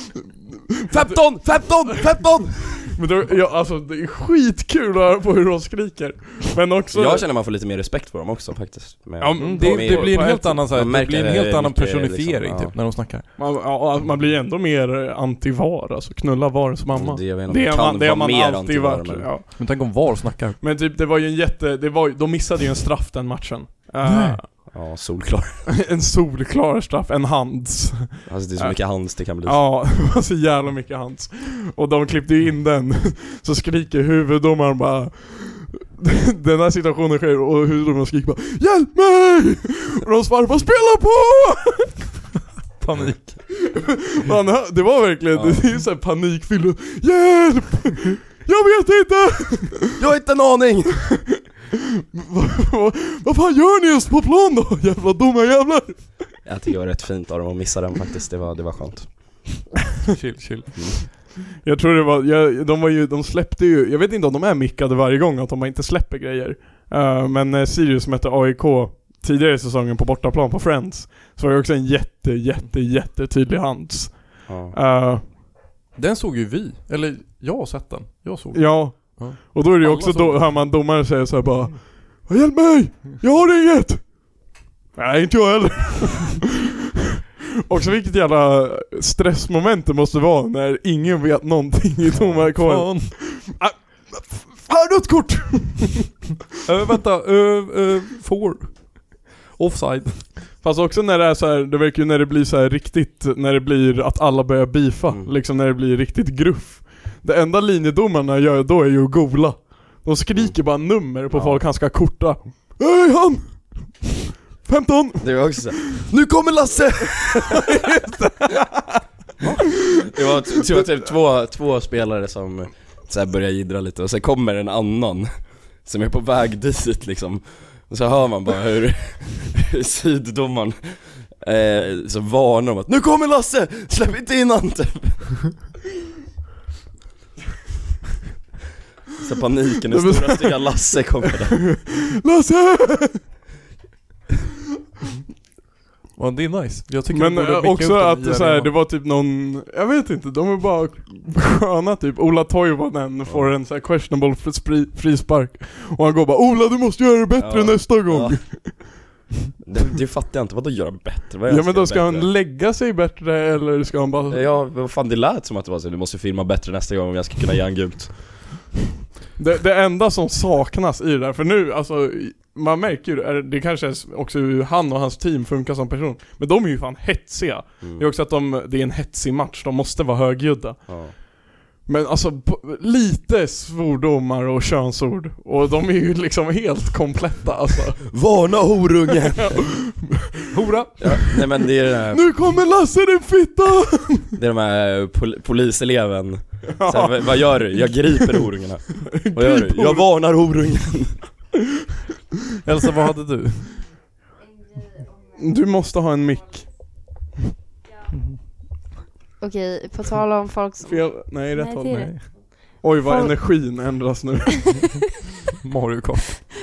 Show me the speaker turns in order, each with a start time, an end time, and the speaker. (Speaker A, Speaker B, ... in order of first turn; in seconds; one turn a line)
Speaker A: 0.9-2.9
Speaker B: 0.9-2.1
Speaker B: 2.6-7.2
Speaker A: 6.9-12.8
Speaker C: 9.2-13.2
Speaker B: 9.4-10.6
Speaker B: 13.4-19.6
Speaker A: 16.9-19.3
Speaker C: 19.5-20.6
Speaker B: 20.6-24.7
Speaker C: 24.0-24.4
Speaker A: 24.7-25.6
Speaker B: 25.8-42.0
Speaker A: 28.3-29.6
Speaker C: 42.8-43.6
Speaker B: 43.7-49.9
Speaker A: 45.3-45.6
Speaker A: 50.0-51.2
Speaker B: 52.1-56.3
Speaker A: 56.5-59.6
Speaker C: 60.1-61.1
Speaker A: 60.8-61.0
Speaker B: 61.6-75.2
Speaker A: 74.5-74.8
Speaker C: 76.0-80.7
Speaker B: 78.5-84.4
Speaker B: 85.0-86.5
Speaker B: 87.7-96.2
Speaker A: 92.1-92.5
Speaker C: 92.5-93.2
Speaker C: 96.6-100.3
Speaker B: 100.6-114.1
Speaker A: 111.3-111.6
Speaker B: 114.7-116.0
Speaker A: 115.2-117.7
Speaker B: 117.2-119.0
Speaker A: 119.4-135.6
Speaker B: 120.2-120.9
Speaker A: 139.1-141.8
Speaker B: 139.9-140.9
Speaker B: 141.6-143.2
Speaker C: 146.2-148.7
Speaker B: 147.1-159.0
Speaker A: 157.4-159.0
Speaker A: 159.7-162.3
Speaker B: 161.5-164.4
Speaker A: 164.3-168.6
Speaker B: 169.4-188.1
Speaker A: 177.8-178.1
Speaker A: 180.9-181.1
Speaker A: 188.1-189.7
Speaker B: 189.4-190.2
Speaker C: 190.5-191.2
Speaker A: 191.0-192.3
Speaker B: 191.0-191.3
Speaker B: 192.1-194.3
Speaker A: 194.4-201.2
Speaker B: 196.8-198.4
Speaker B: 199.1-200.1
Speaker C: 202.6-203.8
Speaker B: 205.4-206.7
Speaker C: 208.1-208.4
Speaker D: 209.4-213.6
Speaker B: 210.9-215.0
Speaker C: 211.9-212.2
Speaker C: 215.6-216.4